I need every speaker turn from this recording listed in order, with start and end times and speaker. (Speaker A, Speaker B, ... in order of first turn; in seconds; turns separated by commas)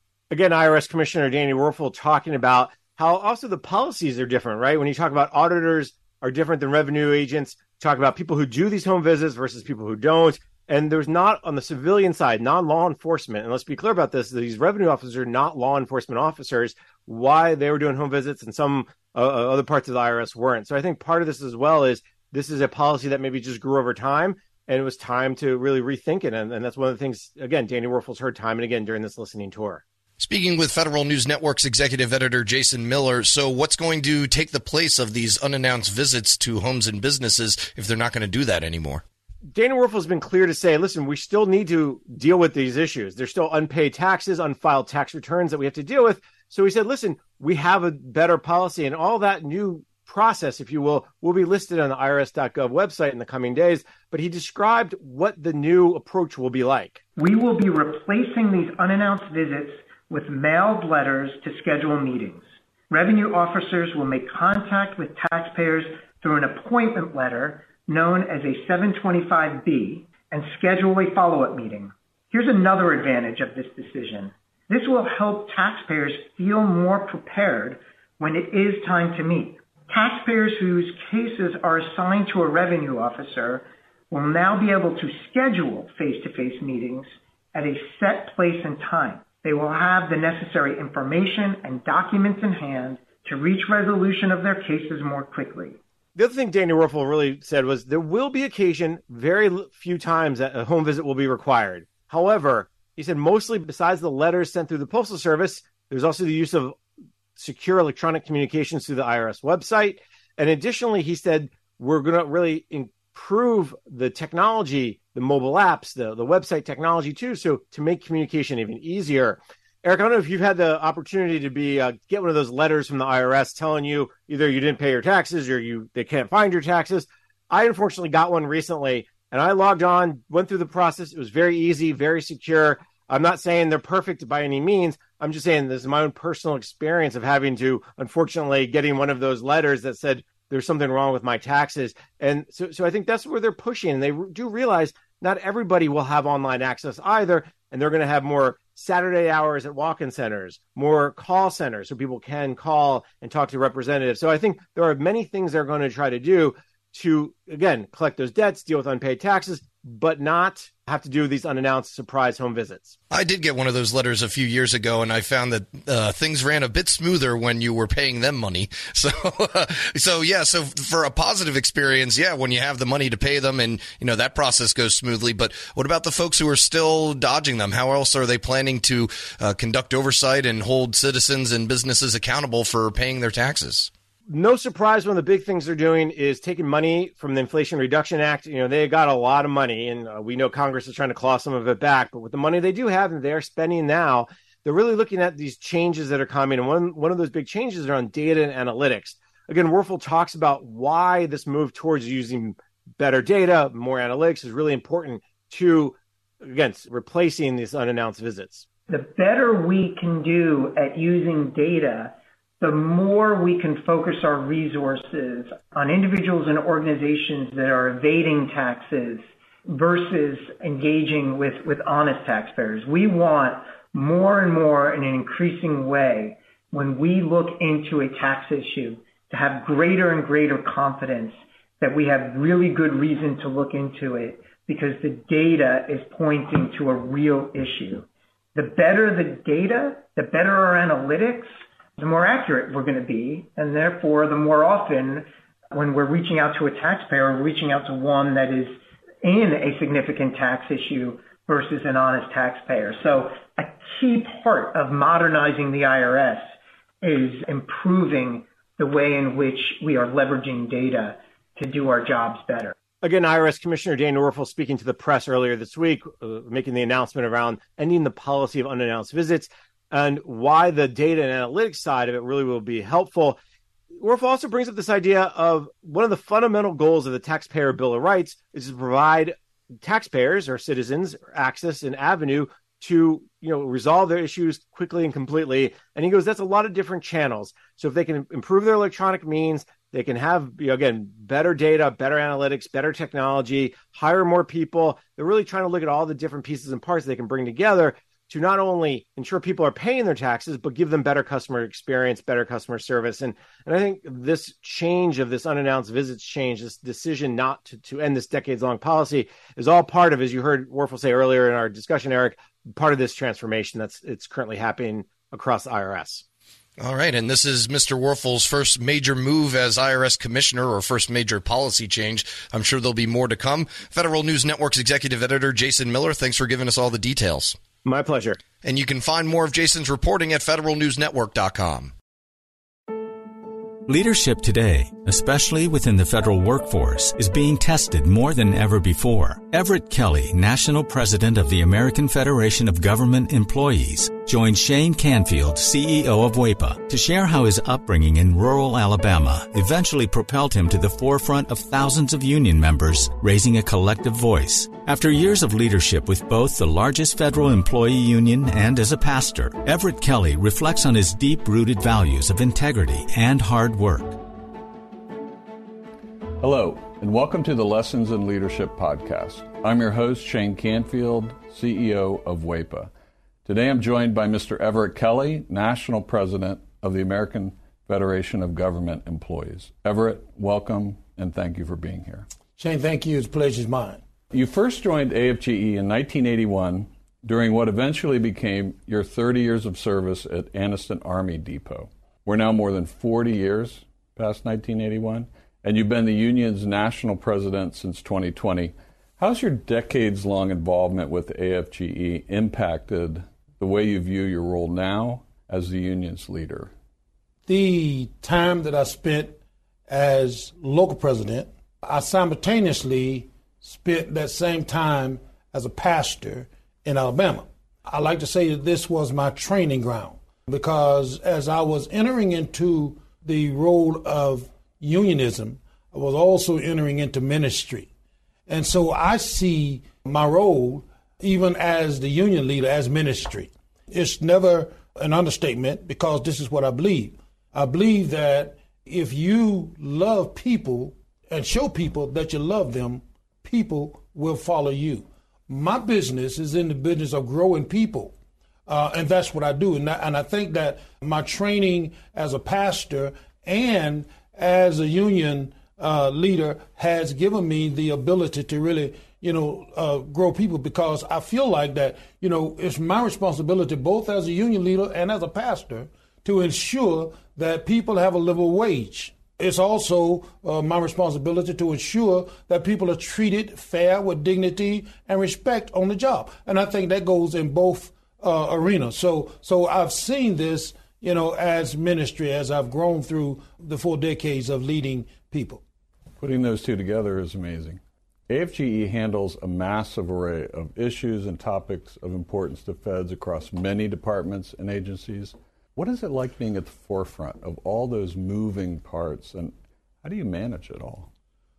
Speaker A: 0.3-29.8, Speaker B: 30.2-39.0, Speaker A: 39.5-57.0, Speaker C: 57.2-95.8, Speaker A: 96.2-106.8, Speaker A: 107.4-162.9, Speaker B: 163.1-183.9, Speaker A: 184.3-208.7, Speaker C: 208.9-241.5, Speaker C: 242.0-256.4, Speaker C: 257.0-262.8, Speaker A: 263.0-273.4, Speaker A: 273.9-316.2, Speaker B: 316.8-327.6, Speaker A: 327.9-328.4, Speaker B: 328.6-331.9, Speaker D: 333.9-364.2, Speaker E: 366.4-372.9, Speaker E: 373.4-382.3, Speaker F: 382.6-384.0, Speaker E: 384.3-406.7, Speaker F: 407.5-427.9, Speaker F: 428.5-448.1, Speaker F: 448.7-485.6, Speaker E: 486.2-501.1